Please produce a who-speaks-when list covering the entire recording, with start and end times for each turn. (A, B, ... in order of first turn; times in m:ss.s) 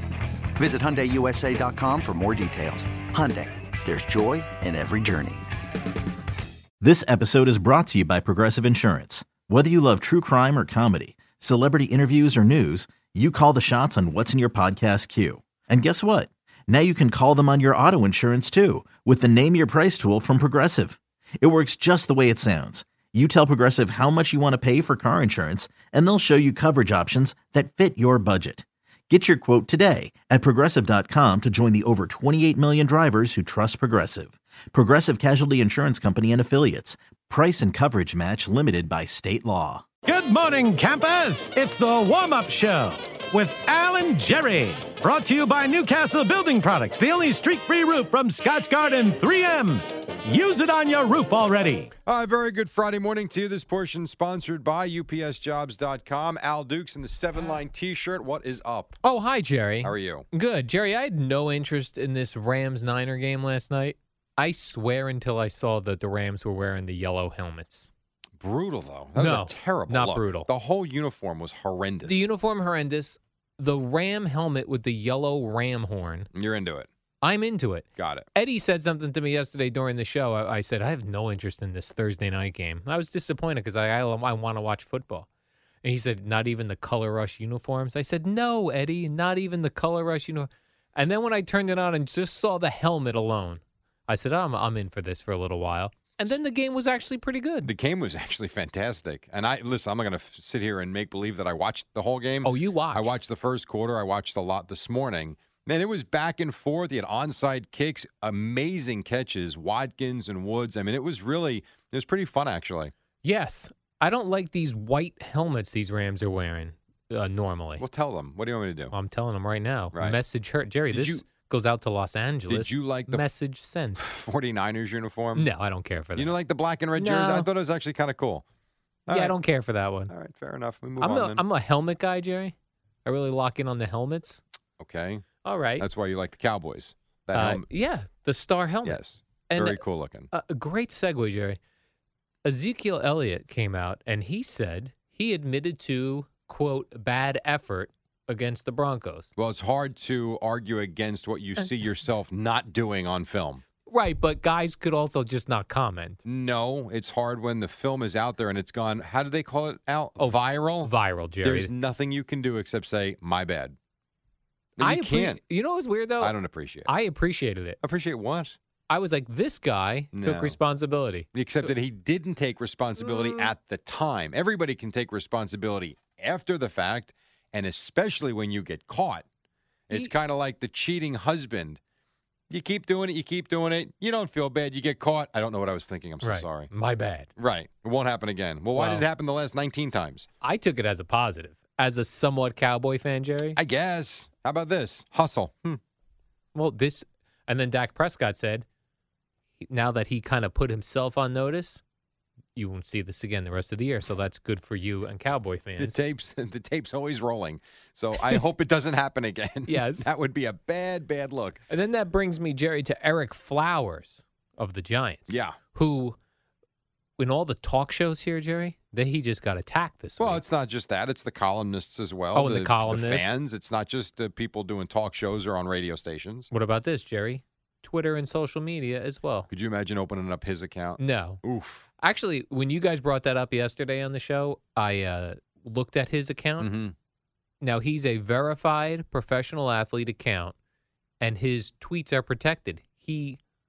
0:00.6-0:05.5 A
0:06.8-0:39.8 B
0:40.1-0:51.9 C
0:52.1-0:59.0 D
0:59.0-1:07.9 E
0:59.8-1:00.3 D
1:08.4-1:12.3 D
1:09.2-1:10.5 E
1:12.0-1:16.3 E
1:16.3-1:16.9 D
1:17.2-1:25.3 E
1:18.0-1:18.3 D
1:25.8-1:37.7 E
1:37.6-1:52.9 D
1:42.4-1:43.1 E
1:53.2-1:57.8 E
1:57.8-1:58.9 D
1:58.9-2:04.0 E
2:00.9-2:01.2 D
2:02.5-2:03.3 D
2:04.0-2:05.5 D
2:05.4-2:06.3 E
2:06.2-2:08.4 D
2:06.9-2:07.5 E
2:09.1-2:09.4 D
2:09.1-2:10.1 E
2:10.1-2:11.4 D
2:11.0-2:14.4 E
2:14.8-2:15.2 D
2:15.4-2:15.9 E
2:15.8-2:17.7 D
2:17.3-2:21.6 E
2:18.8-2:20.3 D
2:22.4-2:29.3 E
2:29.4-2:33.6 D
2:33.9-2:36.2 E
2:36.2-2:43.8 D
2:40.2-2:41.7 E
2:44.8-2:45.4 D
2:44.8-2:47.8 E
2:46.2-2:46.9 D
2:47.8-2:48.6 D
2:48.9-2:51.3 E
2:50.1-2:50.6 D
2:51.3-2:59.2 D
2:53.2-2:53.5 E
2:59.9-3:01.8 D
3:02.5-3:06.7 D
3:06.2-3:07.3 E
3:07.4-3:10.3 D
3:08.8-3:09.1 E
3:10.4-3:13.6 E
3:13.6-3:15.8 D
3:16.5-3:18.7 E
3:19.6-3:21.8 E
3:22.6-3:26.0 E
3:25.8-3:31.6 D
3:29.7-3:30.1 E
3:31.7-3:36.2 E
3:35.3-3:35.6 D
3:37.2-3:40.4 E
3:40.2-3:46.5 D
3:42.4-3:43.3 E
3:46.5-3:49.5 E
3:49.5-3:51.9 D
3:51.0-3:51.4 E
3:52.0-3:56.7 E
3:56.6-3:57.0 D
3:57.6-4:00.6 E
4:01.2-4:03.4 E